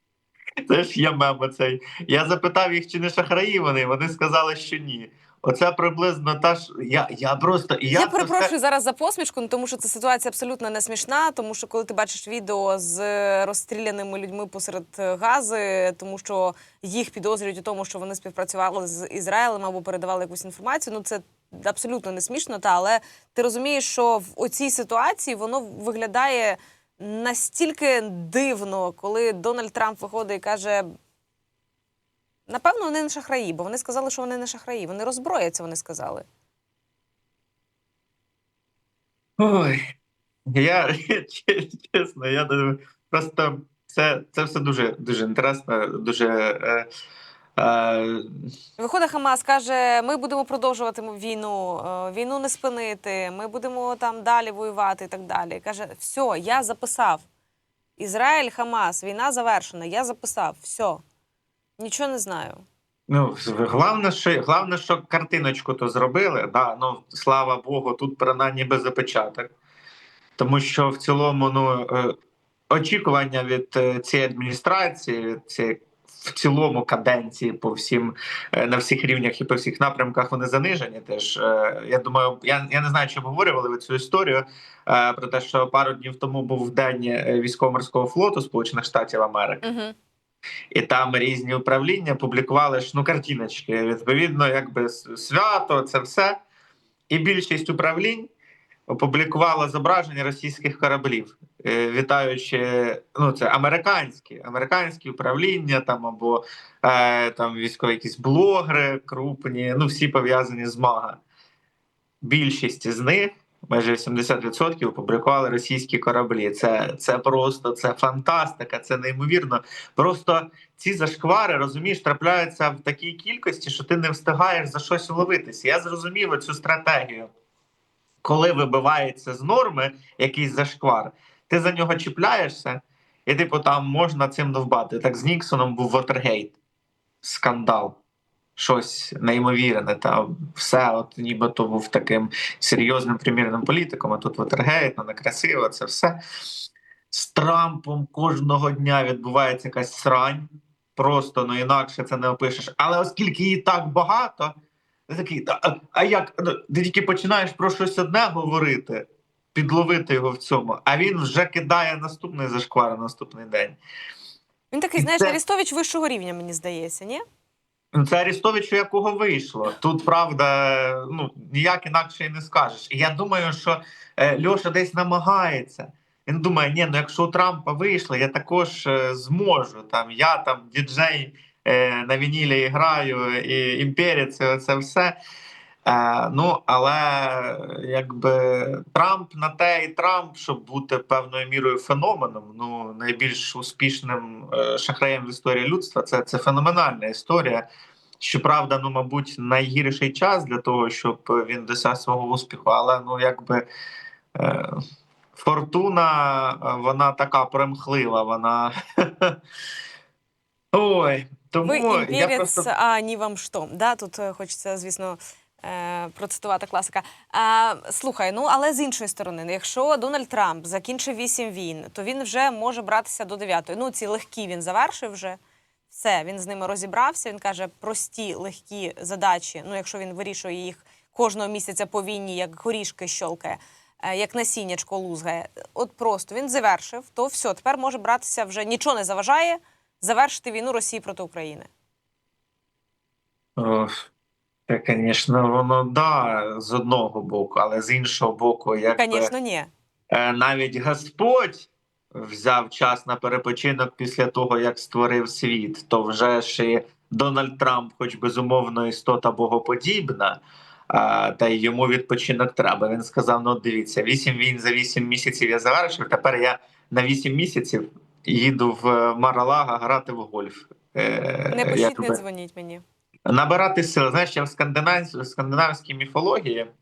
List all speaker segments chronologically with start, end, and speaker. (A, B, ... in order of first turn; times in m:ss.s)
0:00.7-0:08.5 A
0:07.9-0:30.8 B
0:32.5-0:36.2 B
0:39.4-0:39.8 A
0:40.5-0:46.9 A
0:47.6-0:48.3 A
0:48.8-0:57.2 B
0:58.0-1:01.0 B
1:01.8-1:02.6 B
1:03.1-1:09.5 A
1:10.4-1:12.2 A
1:12.7-1:29.6 A
1:29.6-1:29.9 B
1:30.7-1:36.4 A
1:37.1-1:38.3 A
1:38.9-1:51.2 A
1:52.2-2:07.3 A
2:08.2-2:16.6 A
2:17.2-2:18.0 A
2:18.6-2:26.2 A
2:27.1-2:34.5 A
2:35.1-2:43.8 A
2:44.7-2:47.2 B
2:45.0-2:45.4 A
2:47.9-3:05.2 A
3:05.8-3:17.6 A
3:18.2-3:23.6 A
3:24.4-3:24.8 A
3:25.4-3:29.4 A
3:30.7-3:32.7 A
3:31.6-3:45.4 B
3:45.9-4:01.7 B
4:03.6-4:04.0 A
4:04.7-4:09.3 A
4:08.9-4:09.7 B
4:10.1-4:32.2 A
4:31.5-4:32.8 B
4:33.3-4:36.7 A